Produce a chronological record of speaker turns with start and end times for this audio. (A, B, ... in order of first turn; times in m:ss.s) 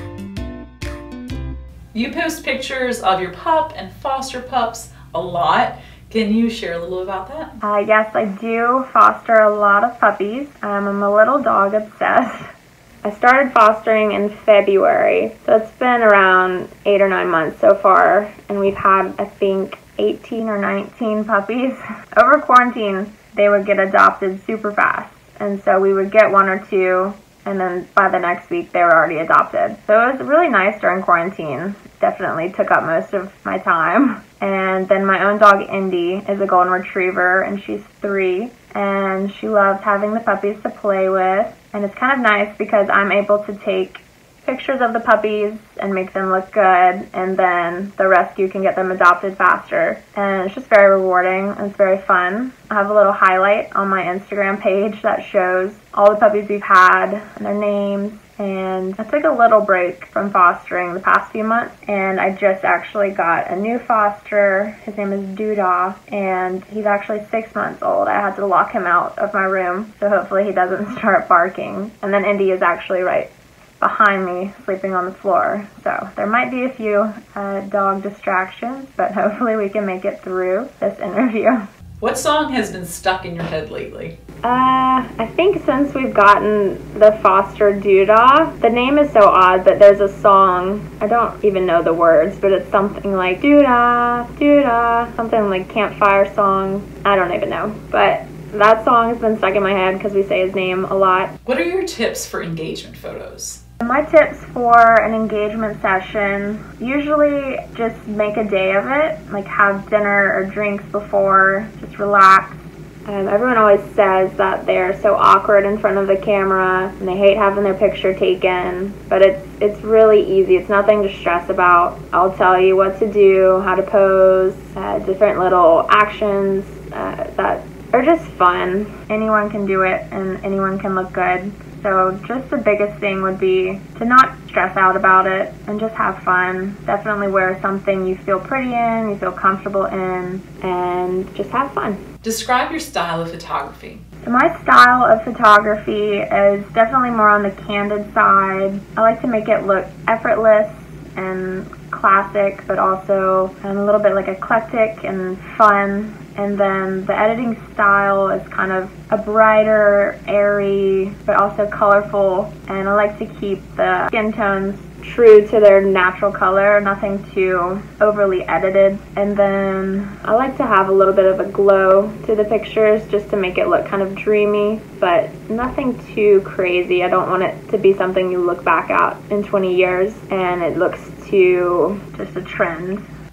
0:01.9-0:07.6 A
0:07.6-0:12.5 B
0:13.0-1:21.7 B
1:22.0-1:24.2 A
1:24.4-1:41.3 B
1:41.4-1:43.6 A
1:43.8-2:22.0 B
2:22.2-2:24.0 A
2:24.2-3:03.1 B